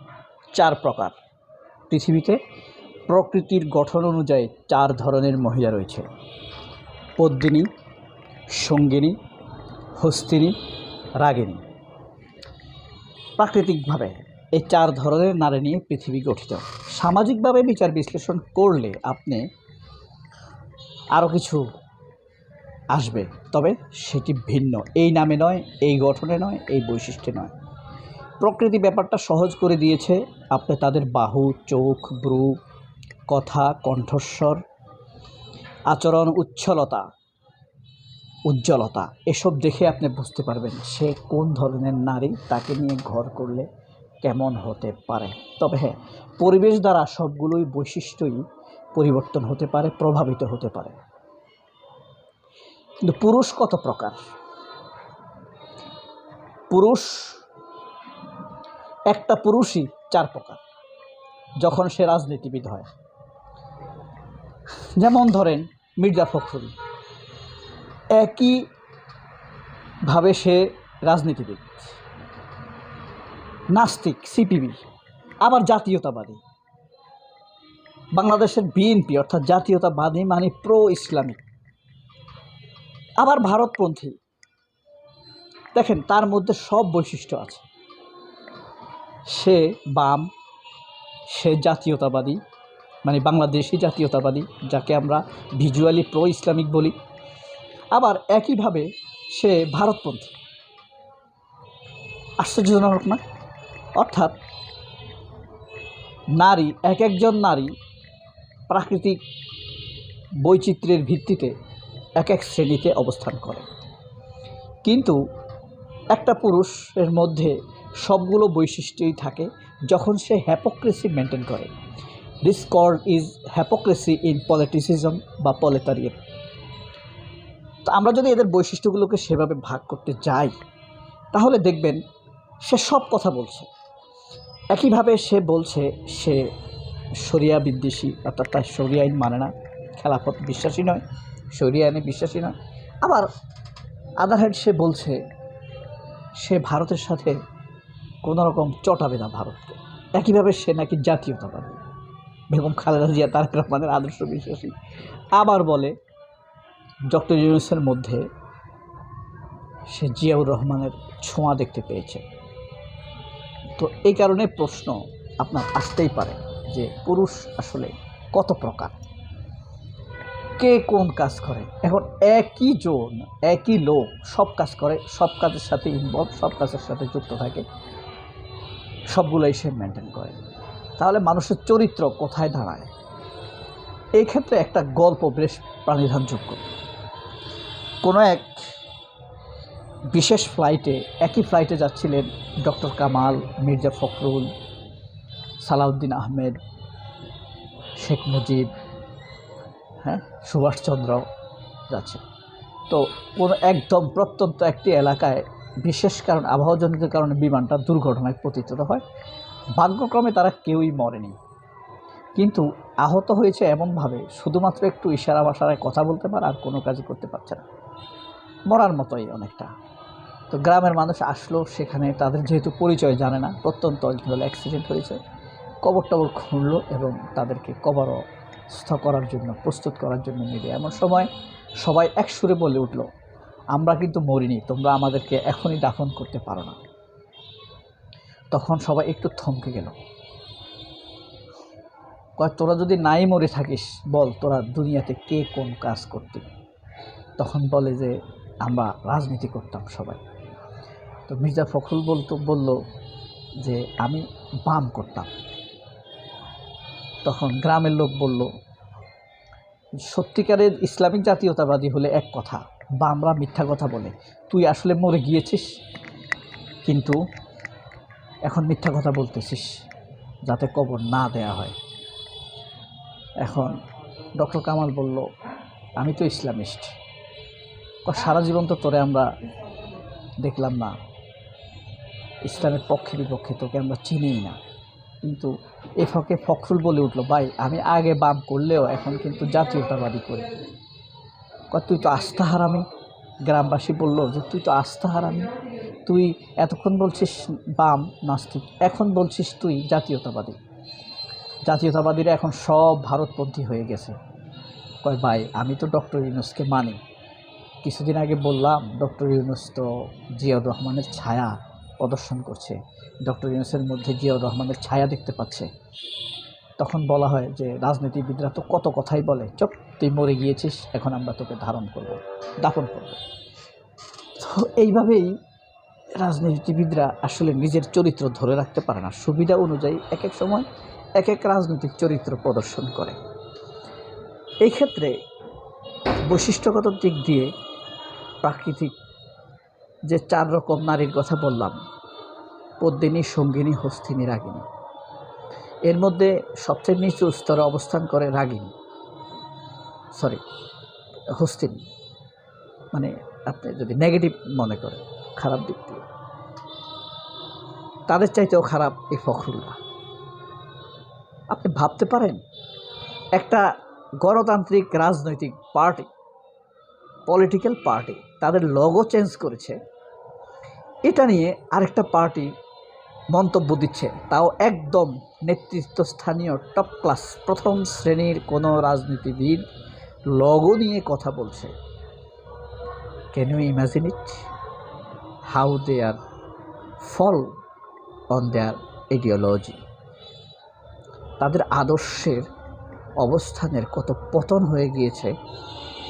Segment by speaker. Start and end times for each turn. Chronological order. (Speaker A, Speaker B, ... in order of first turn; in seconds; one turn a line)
Speaker A: 0.5-1.2
Speaker A: 1.9-2.4
Speaker A: 3.1-6.1
Speaker A: 7.2-7.7
Speaker A: 8.5-9.2
Speaker A: 10.0-10.6
Speaker A: 11.2-11.6
Speaker A: 13.4-19.5
Speaker A: 21.1-21.6
Speaker A: 22.9-27.5
Speaker A: 28.4-32.6
Speaker A: 33.3-34.6
Speaker A: 35.9-37.1
Speaker A: 38.5-43.7
Speaker A: 44.2-48.4
Speaker A: 49.0-51.0
Speaker A: 53.0-54.2
Speaker A: 56.7-57.4
Speaker A: 59.1-60.6
Speaker A: 61.6-62.9
Speaker A: 65.0-66.7
Speaker A: 68.1-68.7
Speaker A: 70.1-71.8
Speaker A: 73.7-74.8
Speaker A: 75.4-76.4
Speaker A: 78.1-81.4
Speaker A: 83.2-84.2
Speaker A: 85.7-87.7
Speaker A: 89.3-90.3
Speaker A: 91.3-92.4
Speaker A: 93.0-97.0
Speaker A: 97.9-100.3
Speaker A: 102.4-103.2
Speaker A: 104.0-104.4
Speaker A: 106.4-107.7
Speaker A: 108.7-109.2
Speaker A: 110.4-111.5
Speaker A: 112.2-113.7
Speaker A: 114.8-115.2
Speaker A: 116.1-121.7
Speaker A: 122.4-126.2
Speaker A: 127.8-130.5
Speaker A: 131.3-132.0
Speaker A: 132.6-133.7
Speaker A: 134.7-136.5
Speaker A: 137.2-143.3
Speaker A: 144.2-145.2
Speaker A: 146.4-147.4
Speaker A: 148.2-151.8
Speaker A: 152.5-154.8
Speaker A: 155.3-155.9
Speaker A: 157.1-158.3
Speaker A: 159.9-162.2
Speaker A: 163.8-169.0
Speaker A: 170.6-177.7
Speaker A: 179.1-180.4
Speaker A: 181.0-182.9
Speaker A: 184.2-186.6
Speaker A: 188.0-188.6
Speaker A: 190.1-194.5
Speaker A: 195.6-196.6
Speaker A: 198.0-198.7
Speaker A: 200.0-201.3
Speaker A: 201.9-202.2
Speaker A: 202.9-209.0
Speaker A: 209.8-211.4
Speaker A: 212.4-217.7
Speaker A: 218.7-219.7
Speaker A: 220.5-225.2
Speaker A: 225.8-231.3
Speaker A: 231.8-233.1
Speaker A: 233.7-236.8
Speaker A: 238.5-240.0
Speaker A: 242.4-246.5
Speaker A: 247.4-250.2
Speaker A: 251.3-252.8
Speaker A: 253.6-255.3
Speaker A: 257.2-258.5
Speaker A: 260.1-265.7
Speaker A: 266.8-267.2
Speaker A: 268.5-269.8
Speaker A: 270.4-271.8
Speaker A: 273.4-273.8
Speaker A: 274.4-275.3
Speaker A: 276.0-276.9
Speaker A: 278.1-279.3
Speaker A: 280.4-281.0
Speaker A: 282.4-284.6
Speaker A: 285.2-290.6
Speaker A: 291.7-292.9
Speaker A: 293.5-295.5
Speaker A: 296.1-300.6
Speaker A: 301.6-304.2
Speaker A: 305.0-307.0
Speaker A: 307.8-315.7
Speaker A: 316.8-323.2
Speaker A: 324.4-325.4
Speaker A: 326.1-333.2
Speaker A: 334.6-335.2
Speaker A: 336.3-337.5
Speaker A: 338.4-338.9
Speaker A: 340.1-341.8
Speaker A: 342.8-344.7
Speaker A: 345.9-348.7
Speaker A: 350.1-350.4
Speaker A: 351.4-351.8
Speaker A: 352.9-356.1
Speaker A: 358.1-359.8
Speaker A: 361.5-362.4
Speaker A: 363.4-363.7
Speaker A: 364.2-366.1
Speaker A: 367.3-369.8
Speaker A: 371.1-372.5
Speaker A: 373.3-379.6
Speaker A: 380.3-381.7
Speaker A: 383.3-384.4
Speaker A: 385.5-386.2
Speaker A: 387.0-387.5
Speaker A: 388.3-389.8
Speaker A: 391.4-392.5
Speaker A: 393.2-395.3